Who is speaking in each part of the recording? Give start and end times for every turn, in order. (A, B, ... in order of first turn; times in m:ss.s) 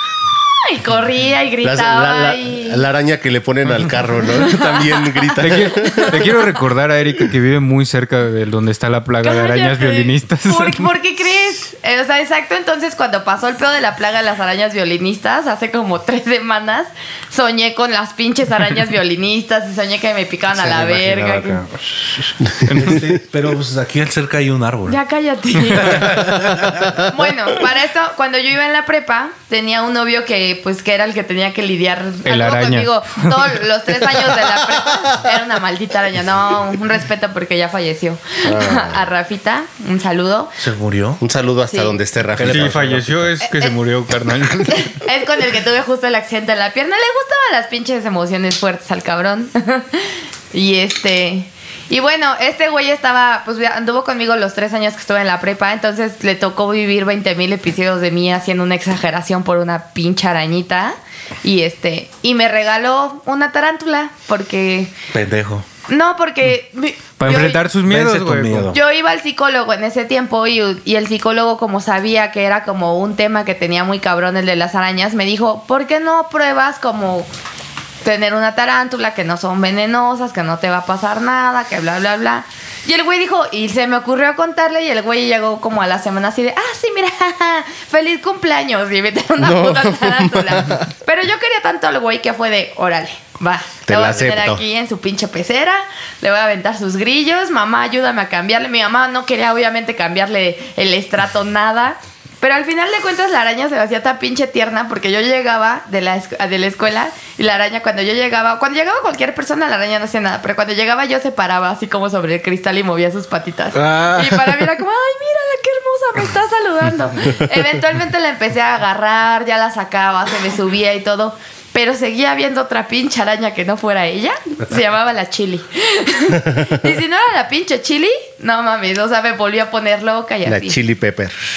0:00.4-0:02.8 A
0:01.6-0:06.3 B
0:04.3-0:06.4 A
0:05.4-0:10.9 C
0:09.2-0:21.6 A
0:20.5-0:25.0 D
0:22.6-0:23.1 B
0:22.7-0:23.0 C
0:24.9-0:26.2 A
0:25.7-0:27.0 D
0:27.0-0:40.5 A
0:32.2-0:33.5 C
0:38.4-0:39.0 B
0:40.6-0:41.2 D
0:41.2-0:43.3 B
0:41.7-0:42.0 A
0:42.3-0:43.1 D
0:42.4-0:45.0 C
0:43.4-0:43.8 A
0:44.7-1:04.9 A
1:05.1-1:05.6 D
1:05.9-1:07.6 A
1:07.2-1:08.7 C
1:07.2-1:08.8 D
1:08.7-1:17.3 A
1:18.0-2:10.8 A
1:29.4-1:30.9 B
1:33.8-1:34.6 B
2:10.4-2:11.3 B